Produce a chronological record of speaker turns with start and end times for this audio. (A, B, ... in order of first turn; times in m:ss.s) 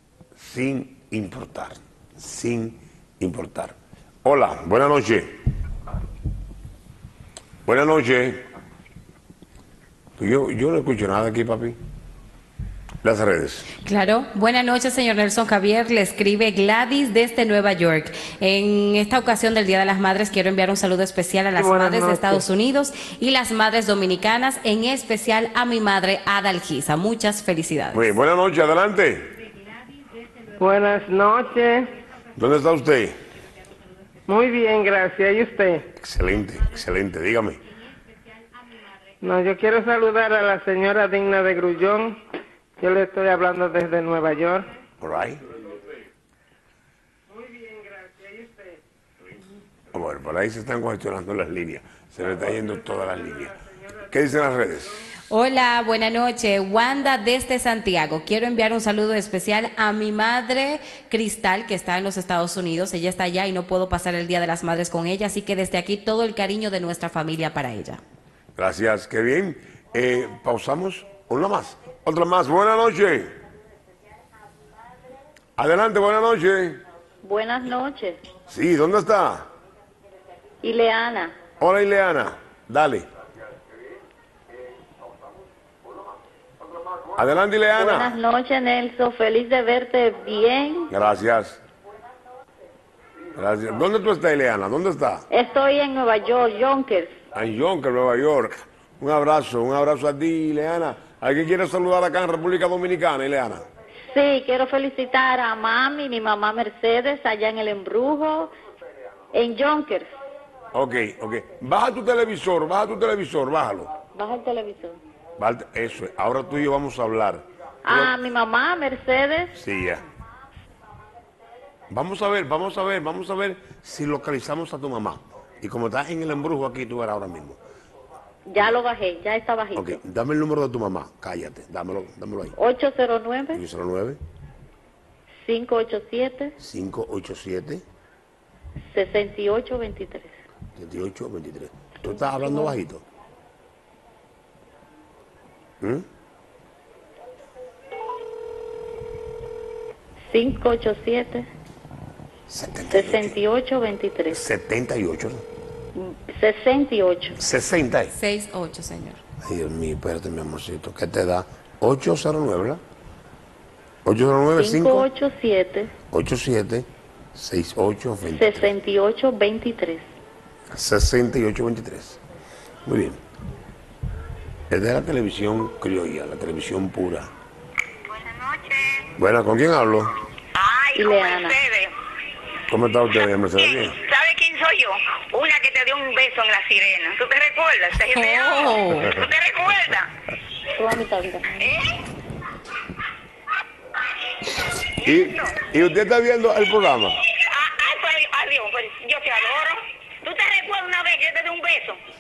0:00.4-0:05.4 A
0:07.6-0:08.4 A
0:10.2-0:11.8 A
0:13.0-0:13.7 A
0:13.8-0:28.1 B
0:21.6-0:22.4 C
0:27.9-0:29.3 A
0:30.6-0:31.9 C
0:32.4-0:33.2 A
0:34.3-0:35.9 C
0:36.0-0:37.6 A
0:39.2-0:42.2 C
0:42.8-0:44.7 C
0:45.0-0:45.4 A
0:47.4-0:48.8 C
0:49.9-0:55.1 A
0:55.3-1:08.0 B
1:08.6-1:13.4 A
1:15.6-1:16.8 A
1:17.2-1:18.2 D
1:18.5-1:19.5 A
1:20.6-1:21.4 D
1:21.6-1:23.1 A
1:27.2-1:28.2 A
1:27.8-1:30.9 D
1:30.9-1:31.6 A
1:33.4-1:35.3 A
1:35.3-1:37.1 D
1:37.3-1:43.6 A
1:44.1-1:48.5 D
1:49.3-1:50.1 D
1:50.7-1:53.9 A
1:54.2-1:55.0 D
1:55.4-1:58.1 A
1:57.9-1:59.5 D
1:59.6-2:00.0 A
2:01.9-2:07.6 A
2:08.5-2:10.0 D
2:09.8-2:12.6 A
2:12.6-2:13.6 D
2:13.5-2:14.2 A
2:15.4-2:16.6 D
2:16.6-2:17.8 A
2:18.9-2:20.4 D
2:20.8-2:23.0 A
2:30.3-2:31.5 D
2:32.5-2:33.4 A
2:32.9-2:34.4 D
2:34.3-2:35.4 A
2:36.0-2:37.4 D
2:37.4-2:38.1 A
2:38.1-2:39.2 B
2:39.4-2:42.8 A
2:44.0-2:45.1 A
2:44.6-2:45.9 D
2:46.1-2:48.7 A
2:48.3-2:50.0 D
2:50.7-2:52.2 A
2:52.9-2:53.2 A
2:54.7-2:57.3 A
2:58.1-2:59.1 E
2:59.2-3:00.1 A
3:00.6-3:01.9 E
3:01.0-3:01.6 D
3:02.7-3:04.0 A
3:03.6-3:10.1 E
3:08.1-3:09.1 B
3:10.8-3:11.7 D
3:14.6-3:15.6 E
3:15.0-3:17.2 A
3:17.3-3:22.0 E